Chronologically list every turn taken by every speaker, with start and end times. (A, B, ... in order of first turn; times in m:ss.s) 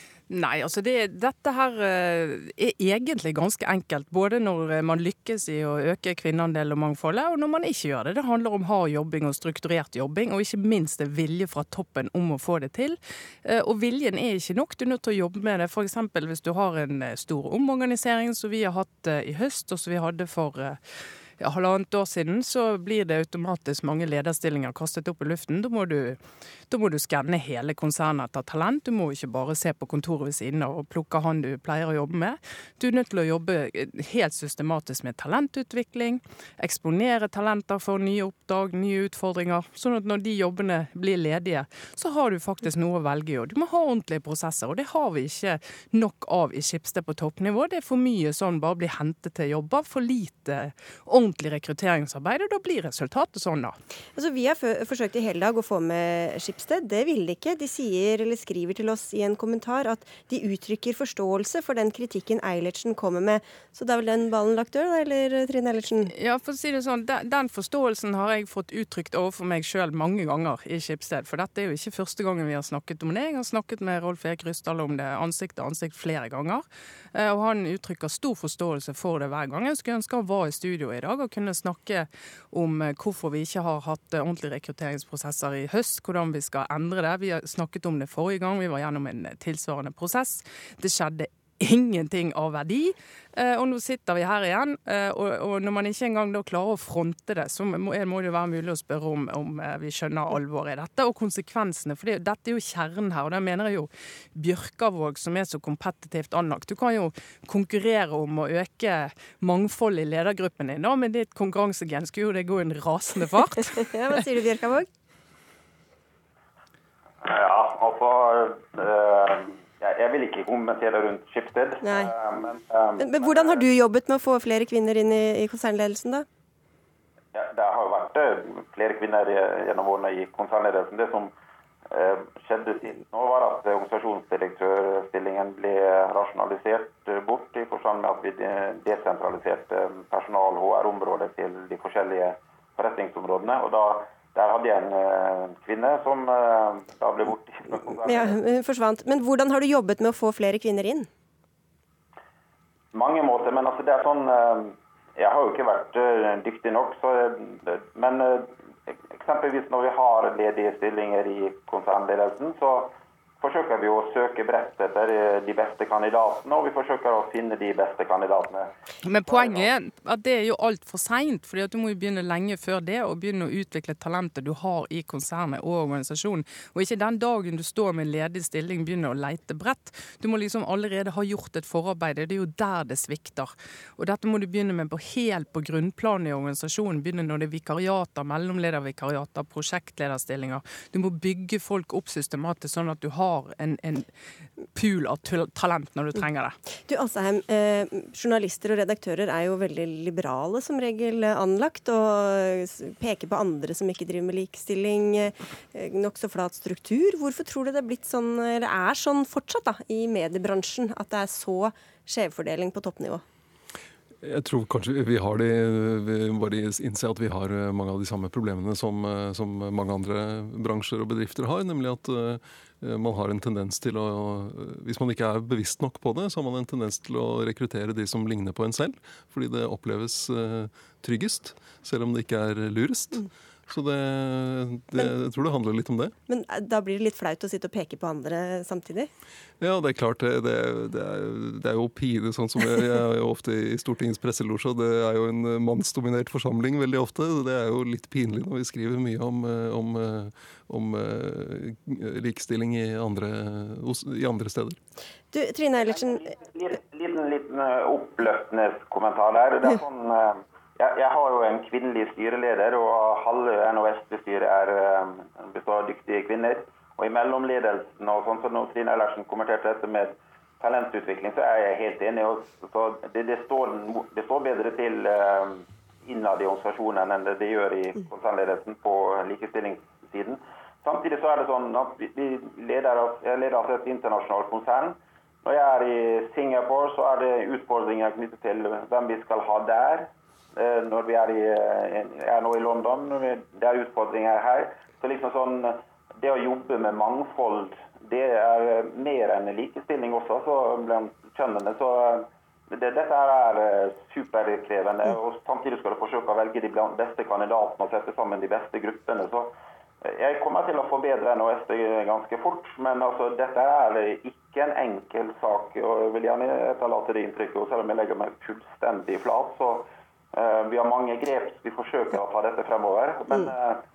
0:00.3-0:20.8 A
0:21.4-0:26.2 A
0:26.7-0:53.8 A
0:54.2-1:06.1 B
1:06.1-1:54.2 A
1:53.8-1:54.9 B
1:57.2-2:03.6 C
2:01.8-2:02.1 B
2:03.0-2:06.2 B
2:07.3-2:11.3 C
2:11.9-2:28.4 C
2:28.0-2:31.1 B
2:32.9-2:48.7 C
2:49.0-3:14.1 A
2:49.2-2:49.7 C
3:14.7-3:16.6 A
3:16.9-3:33.2 B
3:34.2-3:56.1 D
3:56.3-3:59.1 B
3:59.6-4:14.8 D
4:15.3-4:16.3 B
4:16.4-5:09.5 C
5:10.0-5:23.8 C